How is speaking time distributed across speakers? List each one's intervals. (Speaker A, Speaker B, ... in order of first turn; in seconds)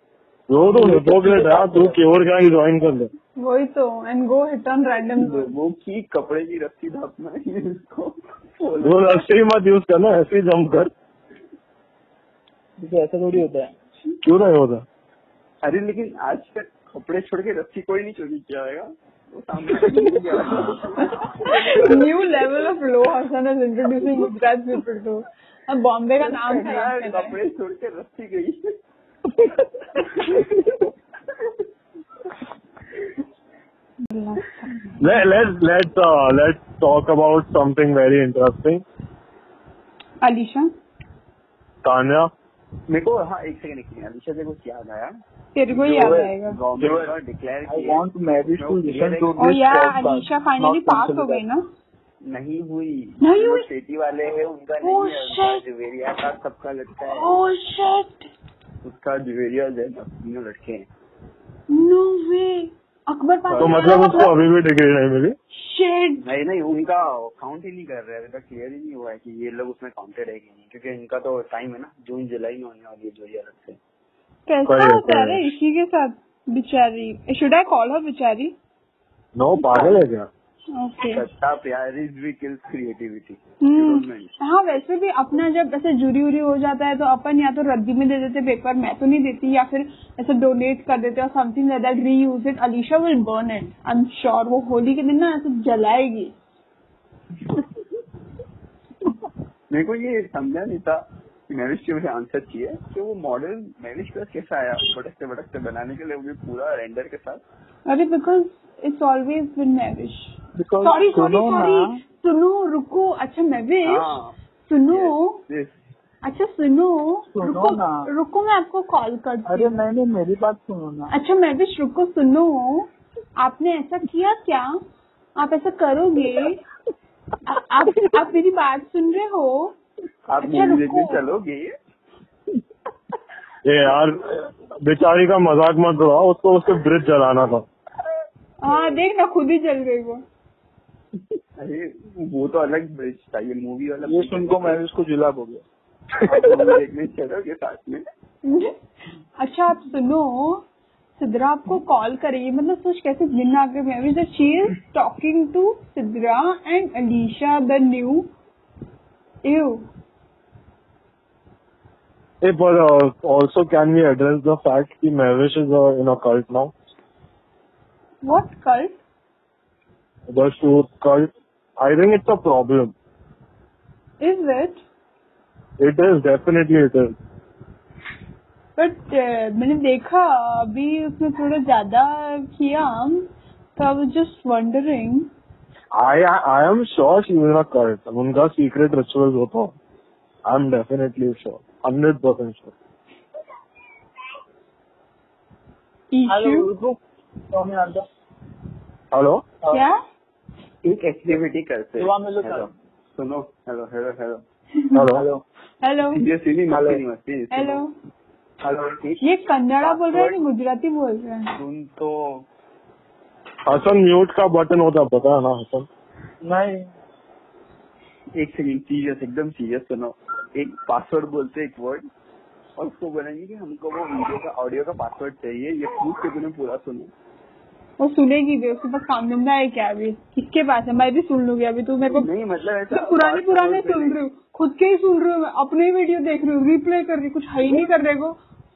Speaker A: 0.5-3.1, 8.8-10.9, 14.2-14.8, 35.0-38.8, 41.8-42.3, 63.6-65.3, 74.7-75.4, 79.3-80.3, 133.6-134.2, 134.8-137.7, 162.4-166.7, 170.3-172.9, 175.8-177.1, 185.9-189.8, 190.4-192.7, 199.1-199.4, 204.9-205.2, 213.7-215.9
Speaker B: 0.8-1.9, 12.8-13.7, 45.9-46.3, 47.6-51.4, 110.5-112.0, 117.3-118.1, 119.5-121.1, 144.1-145.6, 146.2-146.6, 196.3-197.0, 197.5-198.0, 202.0-202.7, 205.1-205.4, 206.7-207.0, 216.4-216.9
Speaker C: 3.4-5.5, 21.2-27.4, 34.0-34.7, 40.2-40.7, 45.5-46.6, 49.4-51.6, 53.2-53.7, 54.8-55.6, 57.0-58.3, 61.7-64.4, 65.5-66.3, 74.5-78.5, 80.7-81.2, 83.6-96.3, 107.9-115.4, 116.2-119.8, 121.1-122.9, 123.4-124.8, 125.4-126.6, 127.5-129.7, 130.4-131.2, 138.6-140.2, 148.4-148.8, 149.4-150.6, 151.2-158.3, 159.4-159.8, 168.2-168.9, 174.2-174.8, 178.8-185.3, 196.1-196.7, 199.7-200.0, 205.8-206.2, 207.5-207.9, 209.2-211.5, 228.0-232.3, 232.9-238.3
Speaker D: 5.2-9.2, 15.6-22.1, 26.2-28.8, 29.9-30.9, 42.9-45.1, 45.7-48.0, 48.5-49.4, 52.2-57.4, 58.8-60.9, 63.5-64.2, 66.2-73.8, 79.6-80.0, 81.1-84.3, 99.7-107.4, 113.8-114.3, 114.9-115.7, 130.3-131.7, 141.1-144.8, 146.2-148.0, 200.8-204.4, 206.1-207.8, 208.7-209.2, 209.8-210.4, 211.6-212.4, 218.3-222.0, 222.8-227.1, 232.1-234.2